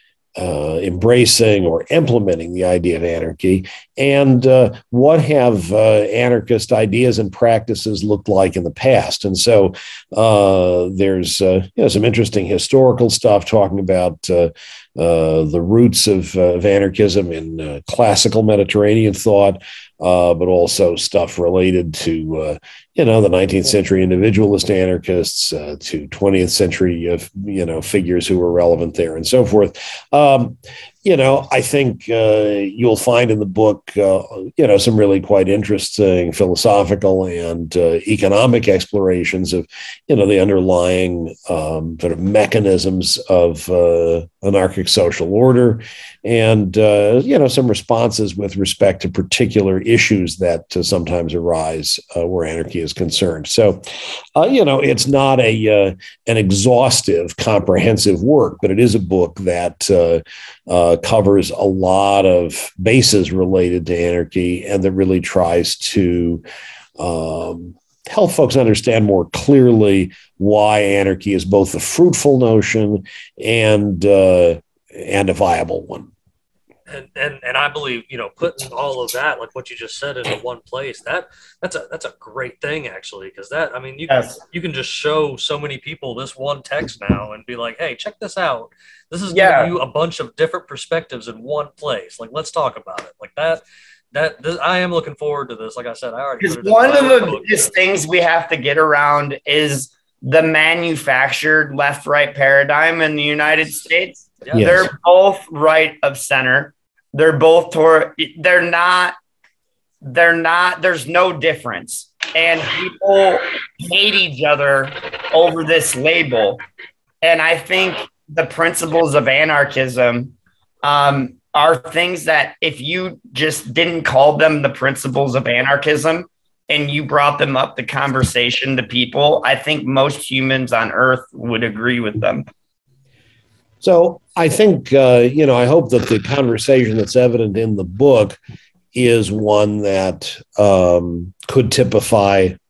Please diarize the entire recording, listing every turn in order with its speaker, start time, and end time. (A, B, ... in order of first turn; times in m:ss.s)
0:00.4-1:06.4 A
1:07.0-1:16.1 A
1:16.9-1:33.6 B
1:24.1-1:24.4 C
1:29.3-1:29.7 C
1:34.1-1:37.7 B
1:36.4-1:49.2 C
1:44.4-1:44.7 B
1:44.5-1:44.9 A
1:50.0-1:56.6 C
1:57.2-2:12.5 C
2:13.8-2:18.4 A
2:18.9-2:22.6 A